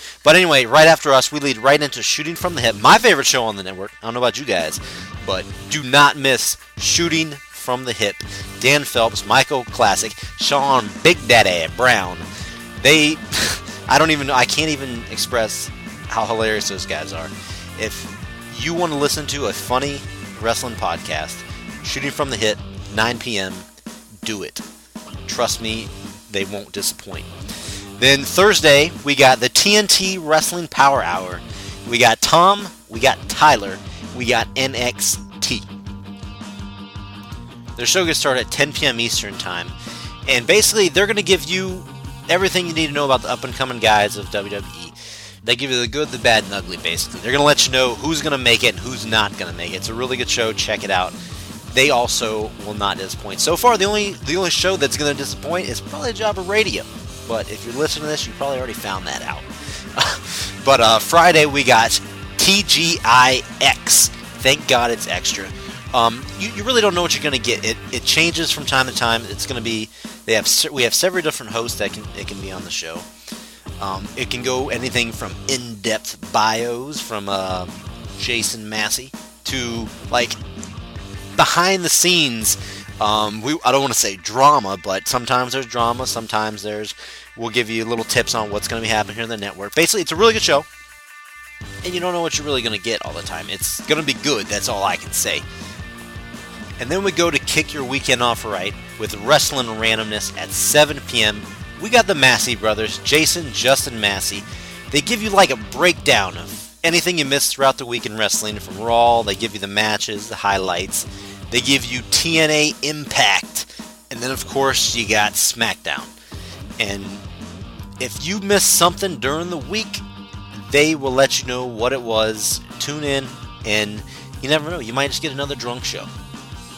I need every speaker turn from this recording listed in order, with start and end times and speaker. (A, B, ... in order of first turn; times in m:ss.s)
0:00.2-0:12.2 A
0:12.8-0:23.6 A
0:24.2-0:24.6 A
0:25.2-0:27.3 A
0:28.0-0:35.6 A
0:37.8-0:39.7 A
0:40.3-0:51.2 A
0:51.7-1:13.1 A
1:13.8-1:20.4 A
1:21.4-1:30.7 A
1:31.8-1:35.4 A
1:36.8-1:56.1 A
1:56.8-1:57.2 A
1:58.0-2:00.0 A
2:00.5-2:06.1 A